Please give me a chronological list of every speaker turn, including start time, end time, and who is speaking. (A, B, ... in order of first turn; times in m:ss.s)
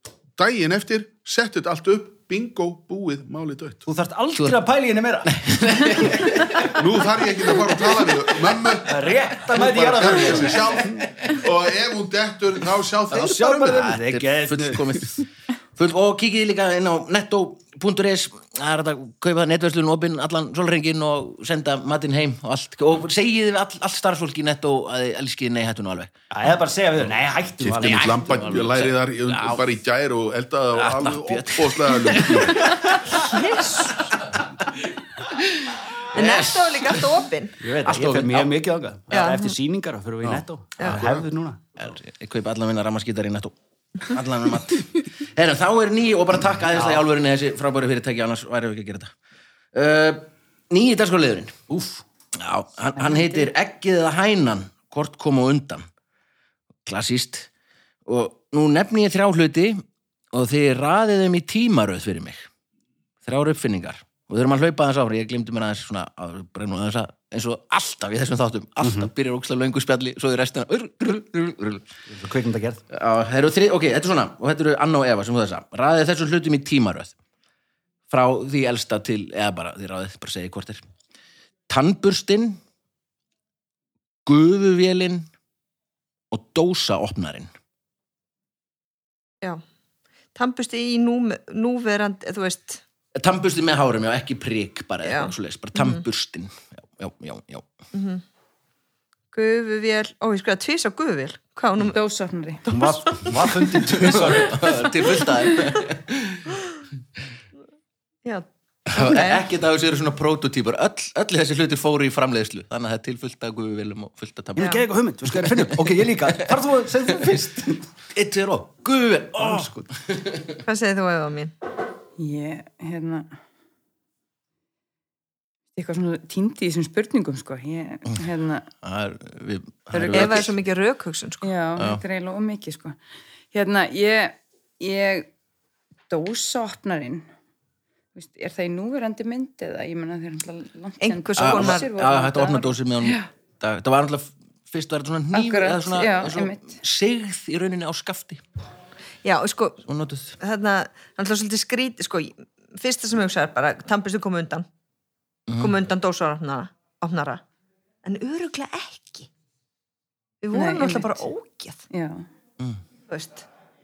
0:00.4-0:03.8 A
0:03.8-0:06.4 B
0:05.2-0:06.8 C
0:06.6-0:09.0 A
0:08.8-0:10.9 B
0:09.5-0:13.9 A
0:09.9-0:11.4 C
0:13.1-0:14.8 B
0:13.6-0:15.2 C
0:15.7-0:26.1 C
0:26.3-0:28.2 B
0:27.6-0:33.0 A
0:27.7-0:29.6 C
0:30.7-0:37.1 C
0:33.2-0:34.0 D
0:36.1-0:37.5 D
0:37.6-0:41.6 B
0:37.8-0:38.5 C
0:39.1-0:39.5 D
0:40.3-0:41.1 A
0:41.8-0:49.1 C
0:46.7-0:47.0 B
0:49.7-0:51.7 C
0:51.7-0:52.0 B
0:52.4-0:55.8 C
0:53.0-0:53.4 E
0:56.8-0:57.5 C
0:58.0-1:02.5 C
1:03.2-1:11.9 C
1:08.8-1:09.1 B
1:12.1-1:12.8 B
1:12.9-1:17.1 C
1:18.1-1:20.8 C
1:21.7-1:22.6 C
1:24.2-1:25.3 C
1:26.3-1:27.5 C
1:30.3-1:32.8 D
1:33.1-1:37.6 C
1:35.0-1:36.0 D
1:37.9-1:38.2 D
1:39.3-1:41.9 D
1:41.9-1:42.6 E
1:42.7-1:44.8 B
1:42.8-1:46.5 C
1:48.2-1:49.4 D
1:48.9-1:56.5 C
1:54.6-1:57.8 B
1:58.1-2:00.6 C
1:59.4-1:59.9 B
2:00.6-2:01.5 D
2:02.2-2:03.3 E
2:05.7-2:08.7 E
2:08.8-2:10.6 C
2:09.9-2:10.4 E
2:10.0-2:11.5 D
2:11.4-2:13.0 E
2:11.8-2:12.0 C
2:13.5-2:15.3 E
2:16.1-2:17.2 E
2:18.1-2:23.3 E
2:21.0-2:21.9 D
2:21.4-2:28.4 C
2:25.3-2:26.8 E
2:29.2-2:29.8 D
2:29.8-2:30.4 C
2:30.4-2:34.6 D
2:35.5-2:35.7 C
2:35.6-2:37.4 D
2:38.0-2:39.3 D
2:40.4-2:41.8 D
2:40.5-2:41.3 E
2:41.9-2:42.2 E
2:43.1-2:43.4 D